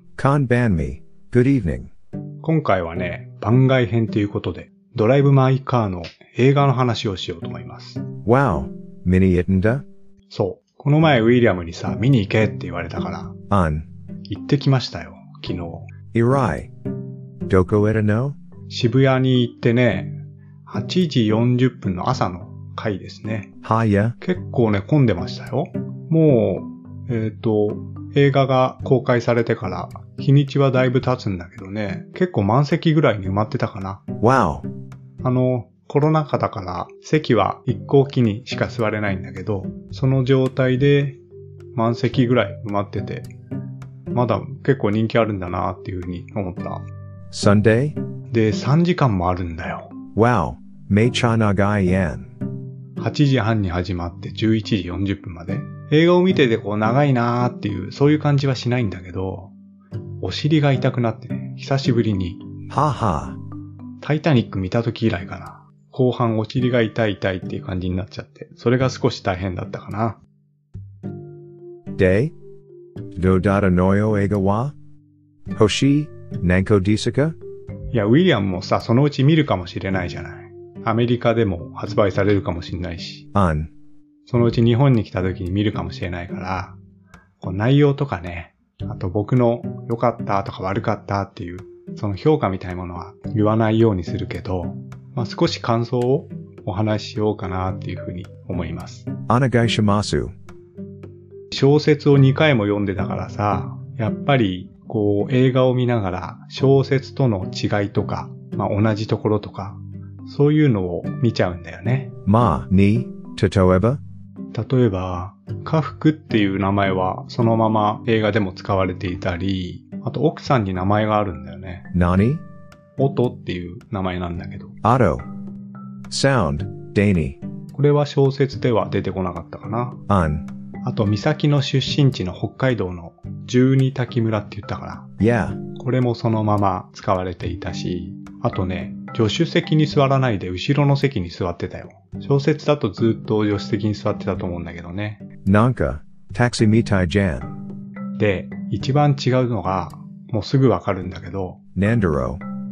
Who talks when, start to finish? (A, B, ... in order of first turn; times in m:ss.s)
0:00.2-0:01.9 A
0:02.4-0:08.0 B
0:08.2-0:09.8 A
0:10.3-0:13.3 B
0:13.5-0:13.9 A
0:14.3-0:15.9 B
0:16.1-0:16.7 A
0:17.5-0:18.4 A
0:18.7-0:23.5 B
0:23.6-0:24.2 A
0:24.2-0:34.0 B
0:34.2-0:34.7 A
0:35.2-0:41.2 B
0:41.8-0:43.3 B
0:44.1-0:46.8 B
0:47.3-0:48.0 A
0:48.3-0:49.9 B
0:50.2-0:52.3 A
0:53.0-0:59.5 B
1:00.2-1:02.4 B
1:02.7-1:03.4 A
1:04.0-1:10.2 B
1:12.0-1:12.3 A
1:13.2-1:14.7 A
1:15.6-1:17.4 A
1:17.9-1:23.3 B
1:23.3-1:23.7 A
1:24.2-1:26.8 B
1:27.4-1:39.1 B
1:39.3-1:40.3 A
1:41.5-1:52.1 B
1:52.2-1:54.0 A
1:54.5-2:01.9 B
2:01.9-2:02.4 A
2:03.0-2:04.8 B
2:04.8-2:05.2 A
2:06.1-2:07.4 A
2:07.7-2:10.0 B
2:10.1-2:10.5 A
2:10.8-2:15.1 B
2:15.2-2:15.6 A
2:15.7-2:25.2 B
2:25.4-2:27.6 A
2:28.2-2:31.6 B
2:31.8-2:32.4 A